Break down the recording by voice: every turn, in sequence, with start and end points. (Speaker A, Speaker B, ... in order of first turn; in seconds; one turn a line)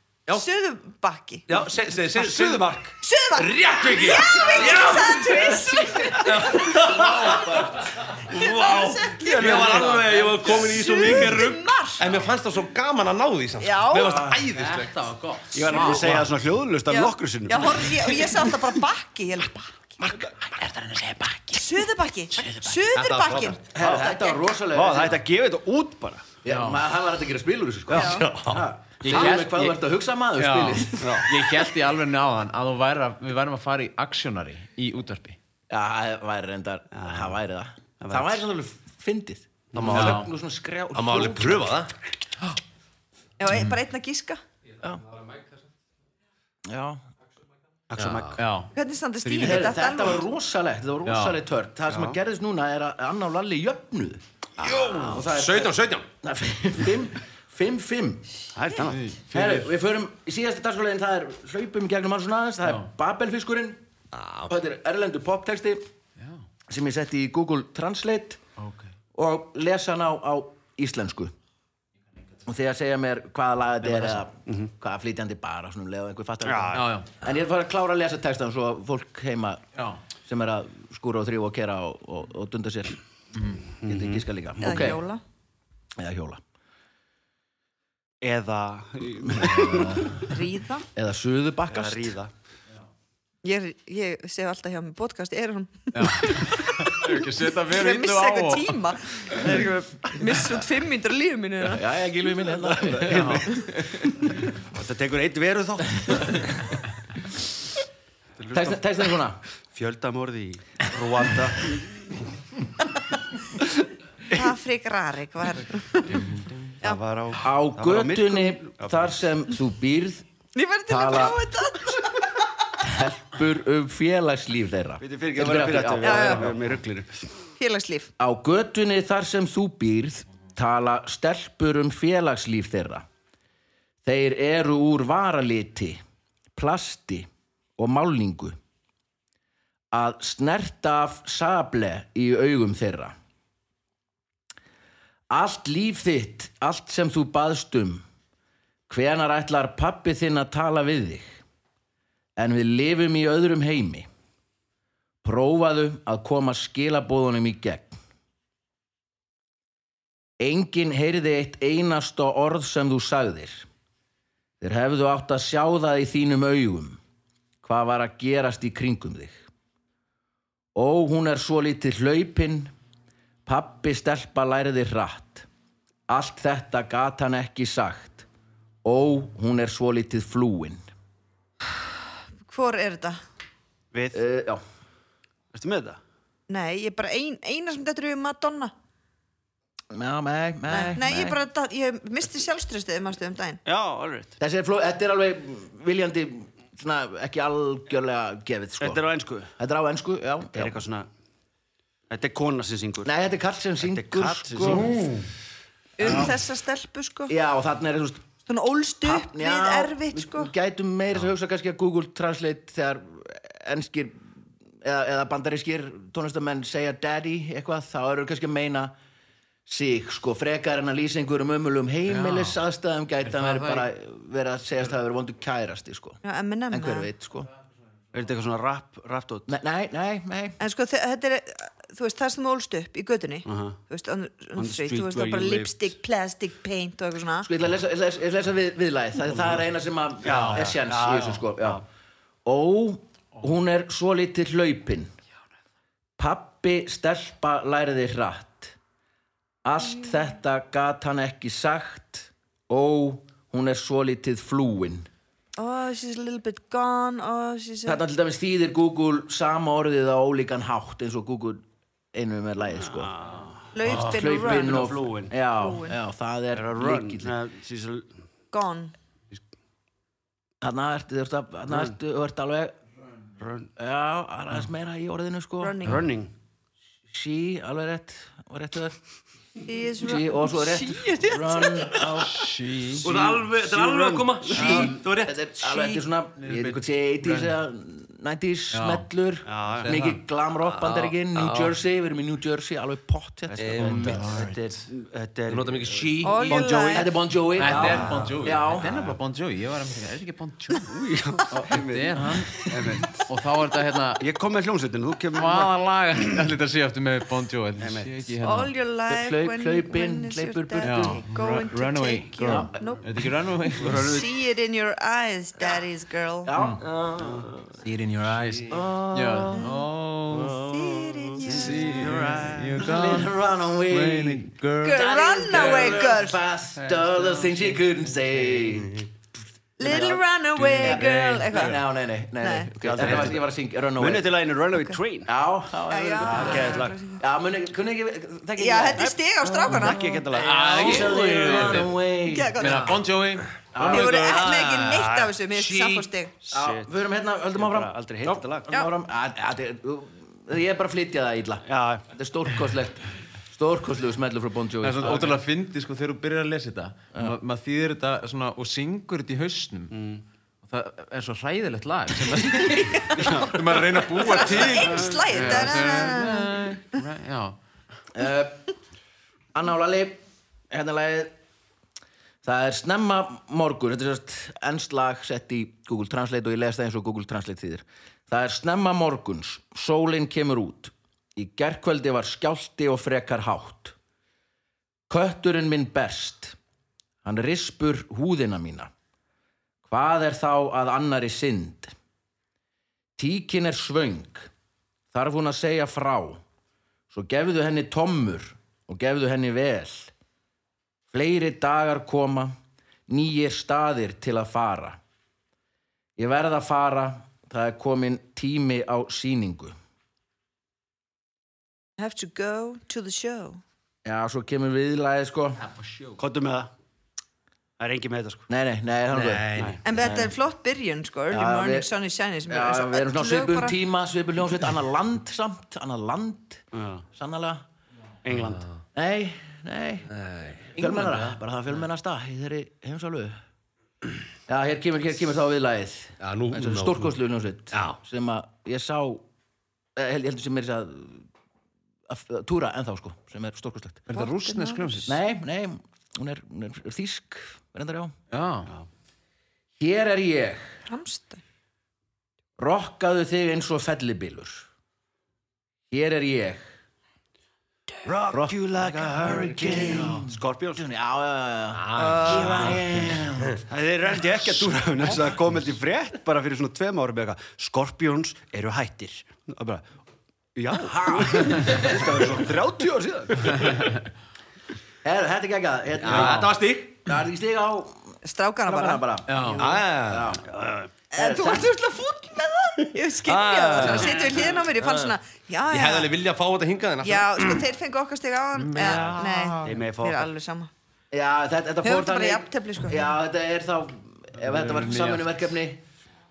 Speaker A: 0.3-1.4
Speaker B: 1.5-5.5
Speaker C: 2.1-2.9
Speaker A: 3.0-6.8
Speaker B: 6.2-14.9
Speaker C: 6.3-6.5
Speaker D: 7.2-7.6
Speaker A: 8.3-12.0
Speaker C: 9.2-10.8
Speaker A: 13.6-14.3
Speaker D: 14.0-14.4
Speaker E: 14.5-16.3
Speaker C: 15.5-18.5
Speaker A: 16.9-19.9
Speaker E: 20.4-21.8
Speaker A: 21.5-24.4
Speaker E: 22.4-22.8
Speaker B: 22.9-23.6
Speaker D: 23.7-25.2
Speaker C: 23.8-24.1
Speaker C: 24.7-26.3
Speaker D: 26.4-31.5
Speaker E: 26.5-26.8
Speaker A: 27.9-28.3
Speaker B: 27.9-28.7
Speaker E: 29.0-35.4
Speaker C: 31.0-31.3
Speaker D: 35.7-41.8
Speaker C: 37.0-37.4
Speaker C: 38.0-38.4
Speaker B: 39.7-40.3
Speaker E: 39.9-40.3
Speaker B: 40.9-41.9
Speaker A: 43.4-44.4
Speaker D: 46.7-47.0
Speaker C: 47.9-48.4
Speaker E: 48.0-48.7
Speaker A: 48.7-50.2
Speaker E: 49.2-49.7
Speaker D: 49.4-58.3
Speaker E: 51.0-51.4
Speaker C: 51.9-52.2
Speaker B: 54.8-56.0
Speaker C: 58.5-59.7
Speaker E: 58.8-59.2
Speaker D: 59.3-63.8
Speaker B: 64.1-64.5
Speaker D: 64.5-65.8
Speaker D: 66.7-68.4
Speaker E: 68.6-68.9
Speaker D: 69.2-71.3
Speaker D: 72.5-79.6
Speaker E: 73.8-74.2
Speaker C: 76.5-76.9
Speaker E: 76.7-77.1
Speaker D: 80.2-83.0
Speaker E: 83.3-83.6
Speaker C: 83.8-84.8
Speaker D: 83.8-85.0
Speaker A: 84.6-85.2
Speaker D: 86.0-86.4
Speaker C: 88.2-90.2
Speaker E: 89.4-90.2
Speaker D: 89.5-90.1
Speaker A: 90.3-90.8
Speaker D: 91.0-92.2
Speaker C: 91.7-92.3
Speaker A: 93.4-97.1
Speaker E: 95.9-98.7
Speaker A: 97.7-101.8
Speaker C: 99.3-100.5
Speaker D: 101.7-103.5
Speaker C: 102.4-106.4
Speaker E: 103.1-104.1
Speaker C: 108.4-109.1
Speaker D: 108.5-109.4
Speaker C: 109.7-112.2
Speaker A: 114.3-117.0
Speaker C: 116.8-119.2
Speaker D: 117.4-120.2
Speaker A: 120.5-122.3
Speaker D: 120.9-121.4
Speaker D: 122.8-126.6
Speaker C: 125.0-127.3
Speaker A: 126.0-126.5
Speaker A: 127.6-128.1
Speaker D: 128.2-133.1
Speaker D: 134.1-136.0
Speaker D: 136.6-137.3
Speaker D: 137.8-138.6
Speaker D: 139.9-143.2
Speaker D: 145.3-148.0
Speaker D: 148.9-151.4
Speaker D: 152.4-154.1
Speaker D: 155.2-158.0
Speaker D: 160.4-163.7
Speaker D: 164.6-167.0
Speaker D: 167.6-169.4
Speaker D: 170.8-172.7
Speaker D: 173.5-175.5
Speaker D: 176.1-178.3
Speaker D: 178.8-180.8
Speaker A: 182.5-183.2
Speaker C: 183.9-184.2
Speaker D: 184.1-184.6
Speaker C: 185.5-186.0
Speaker A: 186.5-188.7
Speaker D: 189.9-191.4
Speaker A: 190.7-193.6
Speaker C: 193.7-194.4
Speaker D: 194.4-200.8
Speaker C: 198.8-199.5
Speaker C: 200.5-201.1
Speaker C: 202.1-203.1
Speaker D: 203.0-205.1
Speaker C: 203.8-205.1
Speaker E: 204.8-205.3
Speaker A: 206.0-207.3
Speaker D: 206.0-206.3
Speaker D: 207.3-208.2
Speaker A: 208.5-210.5
Speaker D: 209.0-214.3
Speaker D: 214.8-218.9
Speaker D: 219.7-227.5
Speaker E: 222.1-222.6
Speaker E: 223.2-223.9
Speaker A: 226.2-227.1
Speaker C: 228.1-229.5
Speaker D: 229.5-230.6
Speaker A: 230.6-237.5
Speaker C: 233.5-233.8
Speaker C: 234.6-235.9
Speaker D: 237.4-241.8
Speaker C: 240.2-241.8
Speaker D: 242.4-245.1
Speaker D: 246.2-248.8
Speaker D: 249.6-255.1
Speaker A: 255.6-258.0
Speaker D: 257.9-263.1
Speaker C: 262.8-265.3
Speaker A: 263.8-264.8
Speaker D: 263.9-267.4
Speaker A: 265.6-266.0
Speaker C: 266.5-268.2
Speaker A: 268.5-268.9
Speaker D: 270.6-272.8
Speaker C: 273.4-273.7
Speaker D: 273.8-275.8
Speaker A: 275.6-276.1
Speaker C: 275.8-276.3
Speaker D: 277.1-279.0
Speaker A: 279.7-282.3
Speaker D: 280.0-282.5
Speaker E: 282.3-283.1
Speaker C: 283.0-285.0
Speaker B: 283.0-285.3
Speaker D: 284.5-294.3
Speaker E: 285.8-287.6
Speaker E: 288.7-289.1
Speaker C: 289.5-289.9
Speaker E: 289.8-290.2
Speaker B: 290.6-291.8
Speaker C: 293.5-297.1
Speaker B: 293.6-294.2
Speaker E: 294.0-294.6
Speaker B: 295.5-296.6
Speaker A: 296.2-297.1
Speaker D: 296.9-298.9
Speaker E: 297.6-300.9
Speaker C: 297.7-299.1
Speaker C: 300.9-303.3
Speaker D: 301.5-303.1
Speaker E: 301.7-304.2
Speaker C: 304.2-305.7
Speaker E: 305.3-308.7
Speaker C: 307.8-308.4
Speaker A: 308.4-313.1
Speaker D: 309.1-311.2
Speaker E: 310.8-314.2
Speaker D: 312.4-312.9
Speaker C: 313.8-314.3
Speaker A: 313.9-316.5
Speaker D: 316.4-317.5
Speaker C: 317.2-317.5
Speaker E: 317.8-320.7
Speaker D: 318.7-319.7
Speaker A: 319.6-319.8
Speaker A: 320.7-322.1
Speaker E: 321.5-323.3
Speaker C: 321.7-322.8
Speaker D: 322.8-329.1
Speaker E: 323.9-325.0
Speaker A: 324.8-326.4
Speaker C: 326.8-327.7
Speaker A: 329.8-331.8
Speaker D: 329.8-330.2
Speaker C: 330.6-331.8
Speaker D: 330.8-334.3
Speaker A: 332.4-332.7
Speaker C: 332.8-335.3
Speaker D: 335.3-342.8
Speaker A: 335.9-337.2
Speaker C: 336.2-337.0
Speaker A: 338.6-340.1
Speaker C: 339.0-341.1
Speaker E: 340.4-342.0
Speaker B: 340.7-341.9
Speaker A: 342.3-343.0
Speaker E: 342.6-344.5
Speaker B: 342.6-342.9
Speaker D: 343.7-344.3
Speaker A: 343.8-346.3
Speaker B: 344.0-346.1
Speaker C: 346.4-347.0
Speaker D: 346.5-355.4
Speaker C: 347.5-348.7
Speaker C: 351.7-352.0
Speaker E: 354.8-360.0
Speaker C: 359.9-360.2
Speaker E: 360.6-367.6
Speaker C: 363.1-363.6
Speaker A: 364.2-366.6
Speaker C: 364.7-365.5
Speaker D: 368.1-368.6
Speaker D: 369.5-370.2
Speaker D: 370.7-371.3
Speaker D: 372.4-383.9
Speaker D: 385.1-386.6
Speaker D: 387.2-388.9
Speaker D: 389.9-391.9
Speaker D: 393.2-394.5
Speaker D: 395.1-396.4
Speaker D: 397.1-400.1
Speaker D: 401.1-402.6
Speaker D: 403.1-405.0
Speaker D: 406.2-409.8
Speaker A: 412.0-413.6
Speaker D: 414.1-415.6
Speaker E: 415.6-416.2
Speaker C: 416.2-416.7
Speaker C: 417.8-418.5
Speaker D: 418.5-420.4
Speaker B: 419.1-419.8
Speaker A: 419.9-423.8
Speaker D: 421.3-421.9
Speaker D: 422.5-427.6
Speaker C: 426.7-427.1
Speaker C: 428.2-428.7
Speaker D: 428.9-430.1
Speaker B: 430.1-430.7
Speaker E: 430.8-431.4
Speaker D: 430.8-433.4
Speaker D: 434.5-439.2
Speaker B: 436.2-437.2
Speaker B: 437.7-438.0
Speaker D: 440.0-441.3
Speaker D: 442.1-444.0
Speaker E: 444.1-445.2
Speaker A: 444.1-445.0
Speaker D: 445.1-448.2
Speaker E: 448.3-448.7
Speaker D: 449.8-450.8
Speaker A: 450.9-451.4
Speaker D: 452.6-454.7
Speaker D: 455.9-456.7
Speaker C: 458.0-460.9
Speaker D: 458.3-463.6
Speaker B: 461.8-462.8
Speaker C: 462.2-462.8
Speaker C: 463.7-469.9
Speaker C: 470.6-473.8
Speaker D: 470.8-472.2
Speaker D: 475.0-476.5
Speaker B: 476.0-476.9
Speaker E: 476.1-476.5
Speaker D: 477.1-480.4
Speaker A: 478.2-479.0
Speaker E: 479.3-479.7
Speaker B: 479.6-480.4
Speaker C: 480.4-480.9
Speaker D: 481.1-481.8
Speaker A: 481.1-486.1
Speaker B: 482.8-484.5
Speaker B: 485.7-487.7
Speaker A: 487.0-490.7
Speaker B: 488.6-489.5
Speaker C: 489.6-490.3
Speaker D: 491.1-495.8
Speaker A: 491.8-493.1
Speaker E: 494.4-495.3